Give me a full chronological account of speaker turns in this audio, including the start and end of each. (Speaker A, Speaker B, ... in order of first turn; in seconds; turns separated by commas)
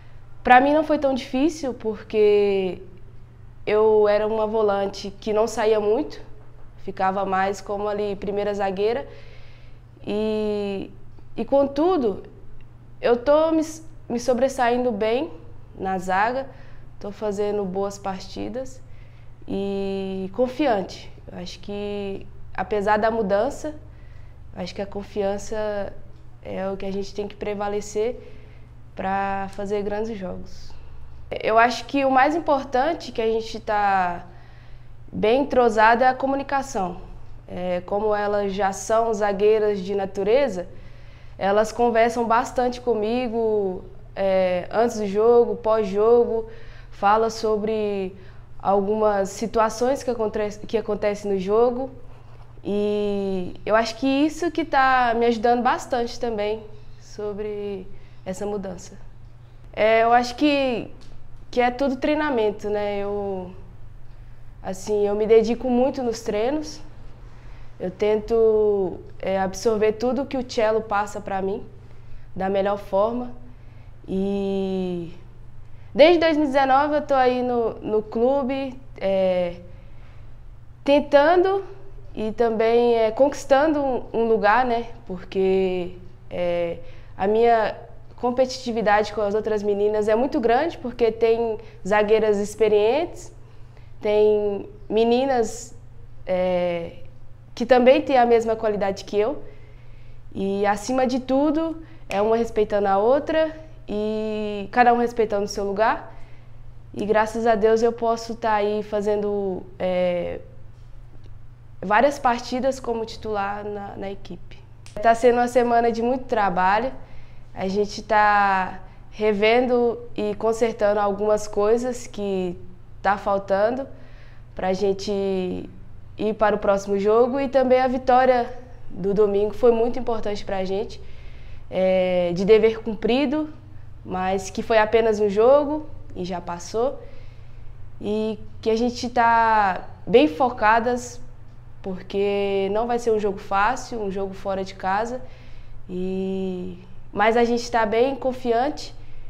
Speaker A: 0.4-2.8, Speaker A: 3.6-6.2, Speaker A: 6.8-9.1, Speaker A: 10.0-12.2, Speaker A: 13.0-16.5, Speaker A: 17.0-18.8, Speaker A: 19.4-23.8, Speaker A: 24.5-28.2, Speaker A: 28.9-30.7, Speaker A: 31.3-34.2, Speaker A: 35.1-40.7, Speaker A: 41.4-51.9, Speaker A: 52.6-59.0, Speaker A: 59.7-60.9, Speaker A: 61.5-63.5, Speaker A: 64.6-66.8, Speaker A: 67.8-71.7, Speaker A: 72.3-73.3, Speaker A: 74.0-75.2, Speaker A: 75.9-79.6, Speaker A: 80.8-93.3, Speaker A: 94.0-97.0, Speaker A: 97.5-99.4, Speaker A: 100.3-106.1, Speaker A: 106.9-110.4, Speaker A: 111.8-116.9, Speaker A: 117.5-123.9, Speaker A: 124.5-131.0, Speaker A: 131.7-133.5, Speaker A: 134.0-137.0, Speaker A: 138.0-141.2, Speaker A: 141.8-145.2, Speaker A: 145.9-148.9